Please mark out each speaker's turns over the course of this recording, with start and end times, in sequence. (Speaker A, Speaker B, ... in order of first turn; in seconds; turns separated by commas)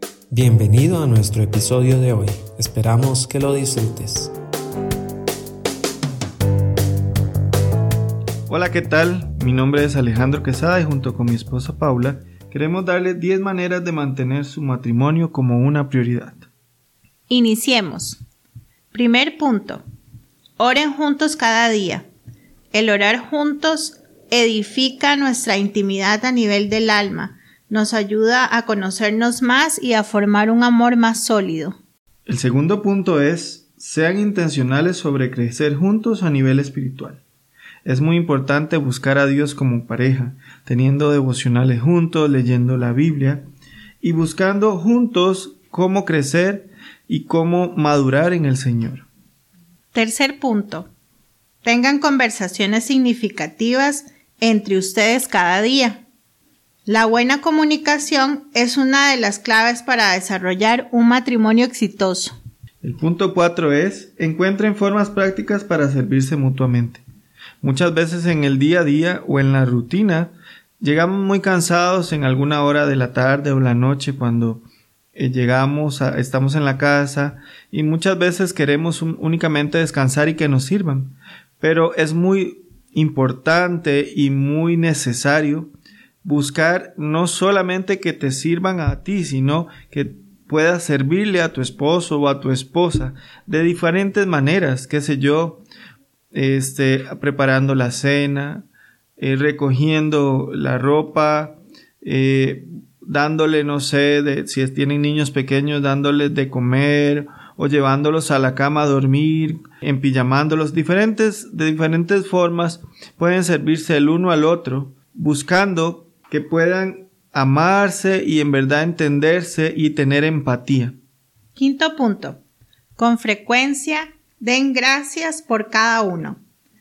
Speaker A: 0.3-4.3, Speaker B: 8.5-16.5, Speaker C: 17.3-18.2, Speaker C: 18.9-19.8, Speaker C: 20.6-22.1, Speaker C: 22.7-31.8, Speaker B: 32.2-37.2, Speaker B: 37.8-43.5, Speaker B: 44.0-49.1, Speaker C: 49.9-50.9, Speaker C: 51.6-56.0, Speaker C: 56.9-62.3, Speaker B: 62.8-67.0, Speaker B: 67.6-74.6, Speaker B: 75.1-95.6, Speaker B: 96.3-98.7, Speaker B: 99.2-121.0, Speaker C: 121.5-122.4, Speaker C: 123.0-126.4